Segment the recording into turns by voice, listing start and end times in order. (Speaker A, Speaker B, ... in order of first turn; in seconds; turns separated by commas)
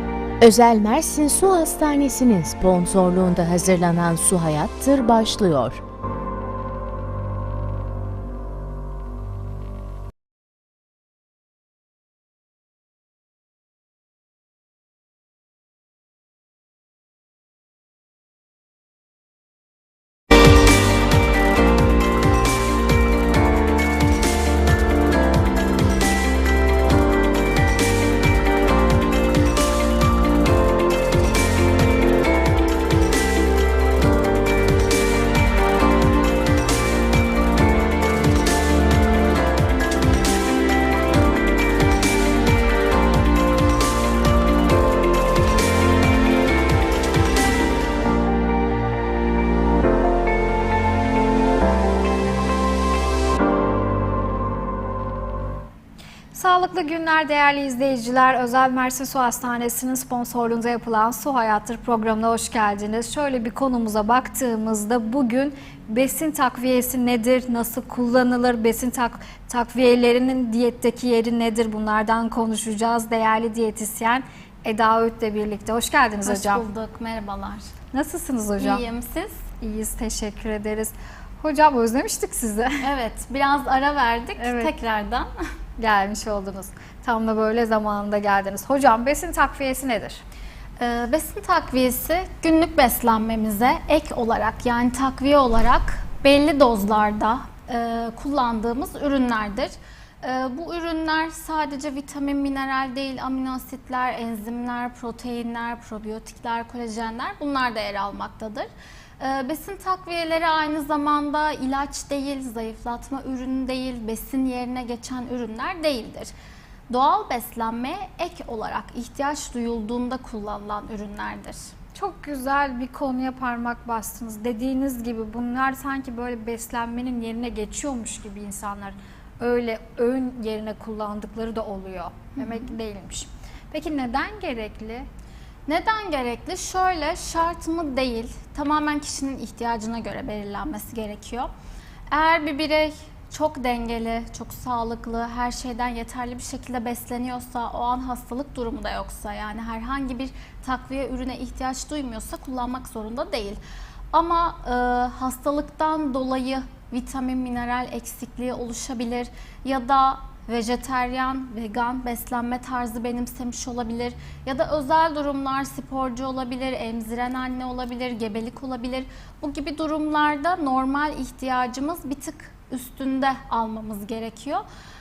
Speaker A: 0.4-5.8, Speaker B: 56.3-76.7, Speaker C: 76.2-77.7, Speaker B: 77.9-78.8, Speaker C: 78.6-79.4, Speaker B: 79.6-82.9, Speaker C: 82.8-85.3, Speaker B: 84.4-84.7, Speaker B: 85.8-90.2, Speaker C: 90.8-108.7, Speaker C: 109.2-116.3, Speaker C: 116.9-121.7, Speaker B: 122.0-135.1, Speaker C: 132.4-132.8, Speaker C: 135.7-141.5, Speaker C: 142.1-153.6, Speaker C: 154.1-174.6